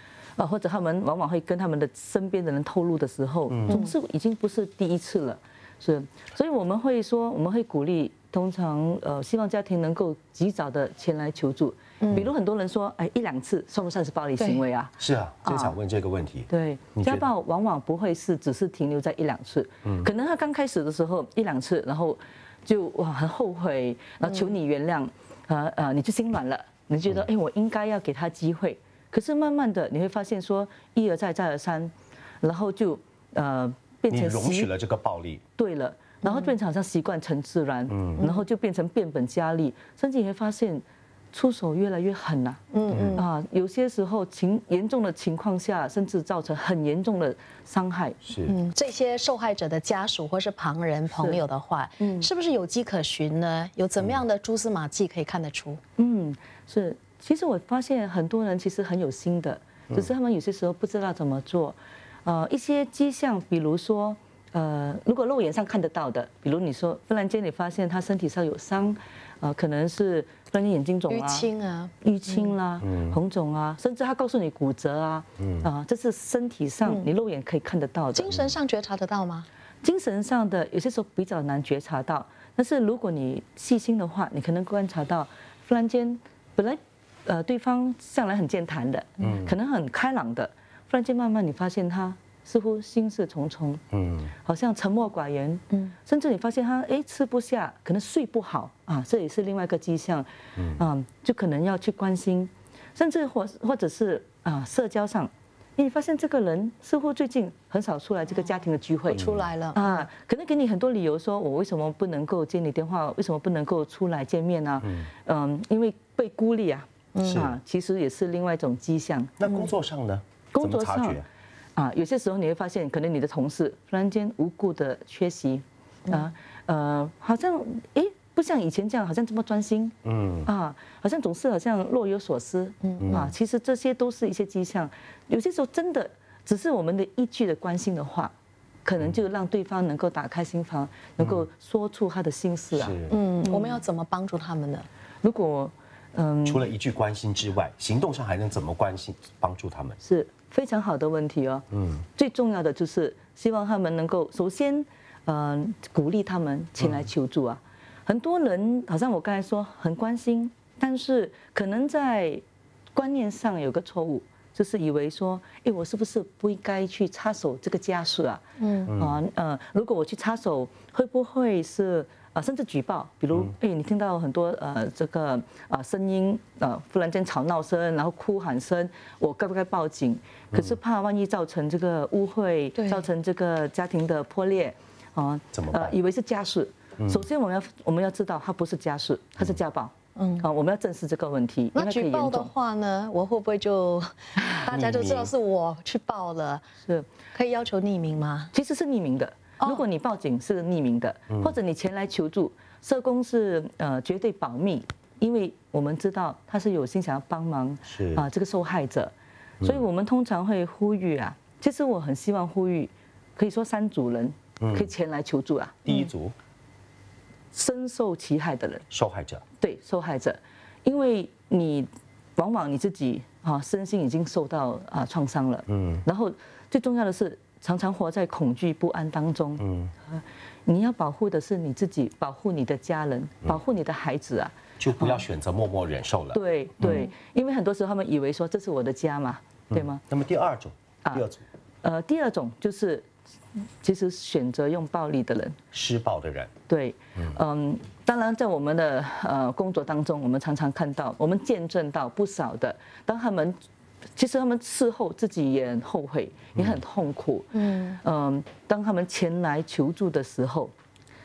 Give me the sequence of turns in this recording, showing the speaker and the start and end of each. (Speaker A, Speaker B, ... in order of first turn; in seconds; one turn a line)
Speaker A: 0.4-15.8
Speaker B: 3.5-3.9
Speaker B: 15.0-17.3
Speaker A: 16.5-34.7
Speaker B: 34.1-35.4
Speaker A: 35.6-42.6
Speaker B: 37.9-38.3
Speaker C: 42.7-43.2
Speaker B: 42.9-43.2
Speaker A: 43.1-48.2
Speaker B: 48.2-48.6
Speaker C: 48.5-55.8
Speaker A: 51.1-51.4
Speaker A: 52.0-52.3
Speaker A: 56.0-71.5
Speaker C: 71.1-71.9
Speaker A: 72.0-78.4
Speaker B: 72.8-73.2
Speaker B: 75.4-75.7
Speaker C: 78.2-79.5
Speaker A: 79.8-93.8
Speaker B: 89.2-89.5
Speaker B: 93.9-94.3
Speaker A: 94.4-119.3
Speaker B: 100.6-100.8
Speaker C: 109.1-110.0
Speaker B: 109.1-109.5
Speaker B: 114.8-115.1
Speaker B: 117.2-117.6
Speaker B: 119.4-121.3
Speaker A: 120.5-138.3
Speaker B: 130.0-130.5
Speaker C: 132.8-133.2
Speaker B: 133.0-133.3
Speaker A: 138.8-143.8
Speaker B: 141.2-141.4
Speaker B: 142.7-143.2
Speaker C: 143.1-144.9
Speaker A: 145.2-146.7
Speaker B: 146.4-150.0
Speaker A: 150.0-162.4
Speaker B: 151.7-152.0
Speaker B: 156.8-157.1
Speaker A: 162.9-192.5
Speaker C: 168.6-168.9
Speaker B: 168.9-169.2
Speaker C: 182.8-183.1
Speaker B: 185.5-185.9
Speaker B: 187.0-187.2
Speaker C: 190.2-190.5
Speaker C: 191.8-196.7
Speaker B: 194.7-195.3
Speaker C: 197.3-198.5
Speaker A: 198.5-216.1
Speaker B: 207.9-208.3
Speaker B: 214.6-214.9
Speaker B: 215.8-216.3
Speaker A: 217.5-218.9
Speaker B: 218.9-219.4
Speaker A: 219.6-235.3
Speaker B: 225.7-226.0
Speaker B: 229.6-229.9
Speaker B: 234.8-237.1
Speaker A: 236.3-240.0
Speaker B: 239.7-241.4
Speaker A: 241.8-243.1
Speaker A: 243.8-245.6
Speaker B: 245.7-246.5
Speaker A: 246.7-253.6
Speaker A: 254.2-260.7
Speaker C: 257.6-258.0